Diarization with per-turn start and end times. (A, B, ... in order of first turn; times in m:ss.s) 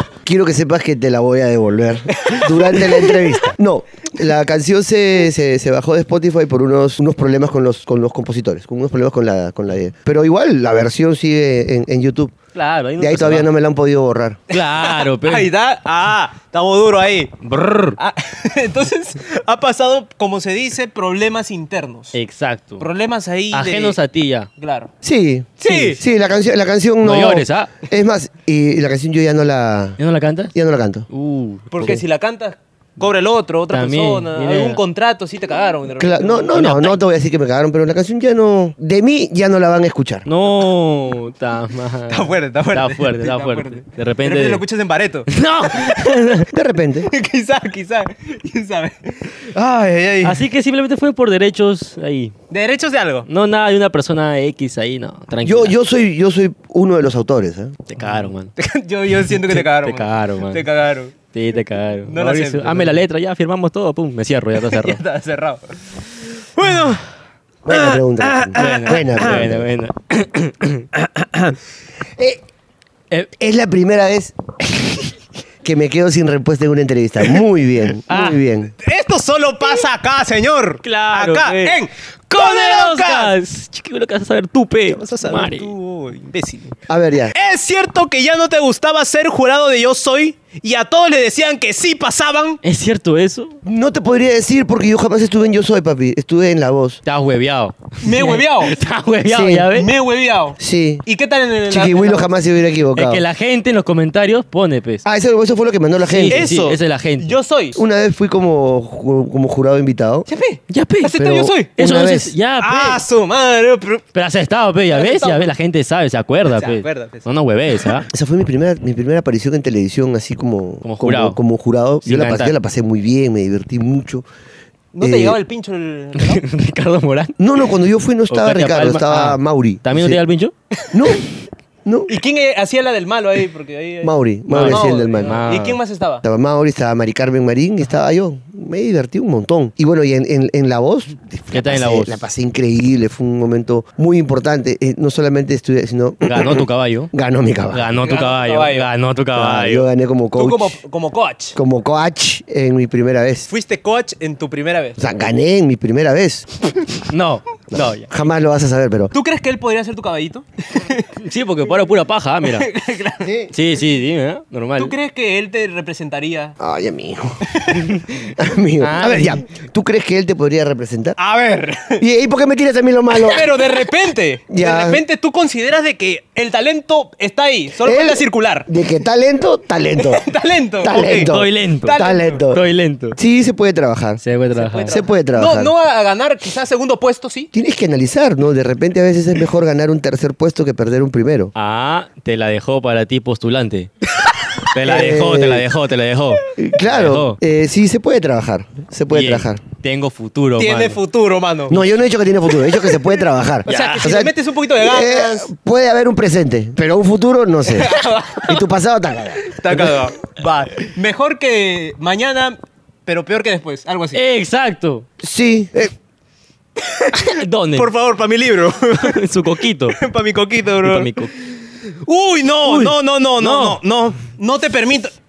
0:00.2-0:12.4 A
0:02.1-0:03.4 B
0:12.6-0:13.5 C
0:13.0-0:14.4 A
0:14.5-0:15.5 C
0:14.5-0:17.4 B
0:17.4-0:18.0 C
0:18.0-0:22.2 B
0:22.1-0:22.9 C
0:22.8-0:24.0 B
0:23.5-0:24.5 C
0:24.6-0:24.9 B
0:25.0-0:30.0 A
0:25.6-0:26.0 B
0:25.7-0:26.0 C
0:27.0-0:27.7 C
0:30.0-0:30.5 C
0:30.5-0:31.1 A
0:31.1-0:32.0 C
0:31.7-0:36.8 B
0:33.7-0:34.8 C
0:36.0-0:40.3 A
0:36.6-0:37.0 C
0:40.3-0:44.6 C
0:42.1-0:45.3 B
0:45.3-0:46.5 C
0:46.5-0:47.1 A
0:47.1-0:50.4 B
0:50.2-0:52.3 C
0:52.5-0:53.3 B
0:53.3-0:55.8 C
0:55.4-0:57.8 A
0:57.9-0:58.5 C
0:58.6-1:01.2 B
0:59.3-1:00.6 C
1:01.3-1:05.0 C
1:02.1-1:03.0 B
1:04.6-1:05.6 B
1:06.6-1:07.0 B
1:07.6-1:09.7 A
1:07.7-1:09.4 B
1:08.6-1:10.9 C
1:11.0-1:11.6 B
1:13.4-1:14.4 A
1:15.6-1:18.7 A
1:18.1-1:18.4 C
1:18.8-1:23.4 B
1:20.8-1:25.7 C
1:24.9-1:26.8 B
1:26.9-1:27.3 A
1:27.4-1:32.6 B
1:32.6-1:33.6 C
1:33.6-1:37.0 A
1:37.0-1:39.9 C
1:38.0-1:38.8 B
1:39.3-1:39.7 A
1:39.7-1:42.3 B
1:40.6-1:41.0 A
1:41.7-1:43.2 A
1:42.9-1:45.0 C
1:45.0-1:46.5 A
1:46.0-1:47.3 C
1:46.3-1:47.8 B
1:47.8-1:50.3 A
1:50.3-1:51.7 B
1:50.7-1:51.2 C
1:51.2-1:52.3 A
1:51.8-1:53.0 C
1:52.6-1:54.0 B
1:54.1-1:58.1 C
1:54.9-1:55.5 B
1:56.5-1:57.3 B
1:58.1-2:04.2 A
2:00.8-2:01.4 C
2:02.0-2:02.5 C
2:05.0-2:06.4 B
2:05.0-2:05.4 A
2:06.2-2:07.3 C
2:07.4-2:10.2 A
2:08.3-2:10.5 C
2:10.9-2:11.3 A
2:11.8-2:12.1 A
2:12.1-2:14.1 B
2:14.0-2:15.5 A
2:14.5-2:15.8 C
2:14.6-2:16.2 B
2:16.2-2:27.9 A
2:21.5-2:22.2 C
2:26.2-2:27.1 C
2:27.7-2:29.9 C
2:28.0-2:28.9 B
2:29.3-2:30.8 A
2:30.4-2:31.6 B
2:31.6-2:33.5 A
2:33.5-2:35.0 B
2:35.0-2:36.6 A
2:37.1-2:38.1 C
2:37.7-2:39.1 A
2:39.1-2:41.1 B
2:41.2-2:42.7 C
2:42.4-2:43.3 B
2:43.2-2:43.5 A
2:43.5-2:45.0 C
2:44.8-2:46.6 B
2:46.6-2:47.5 A
2:47.5-2:47.9 B
2:48.3-2:51.2 A
2:48.8-2:49.4 C
2:51.2-2:52.0 B
2:52.0-2:53.6 A
2:53.2-2:58.7 B
2:54.5-2:55.0 A
2:57.8-3:00.2 A
3:00.0-3:01.3 B
3:00.8-3:02.6 A
3:01.2-3:03.2 C
3:01.8-3:02.4 B
3:03.2-3:05.7 A
3:04.2-3:05.0 C
3:04.7-3:07.5 B
3:07.5-3:11.5 A
3:11.6-3:13.9 C
3:14.7-3:17.4 C
3:14.8-3:15.6 A
3:16.6-3:19.6 A
3:19.1-3:21.0 C
3:20.6-3:21.8 B
3:21.7-3:30.0 A
3:23.7-3:25.5 B
3:23.7-3:24.1 C
3:27.7-3:28.6 B
3:29.4-3:34.2 B
3:34.1-3:35.1 C
3:35.2-3:35.9 A
3:36.8-3:39.2 B
3:37.1-3:37.9 C
3:39.0-3:40.0 C
3:39.9-3:41.3 B
3:40.8-3:41.3 C
3:42.0-3:45.1 B
3:42.6-3:43.8 C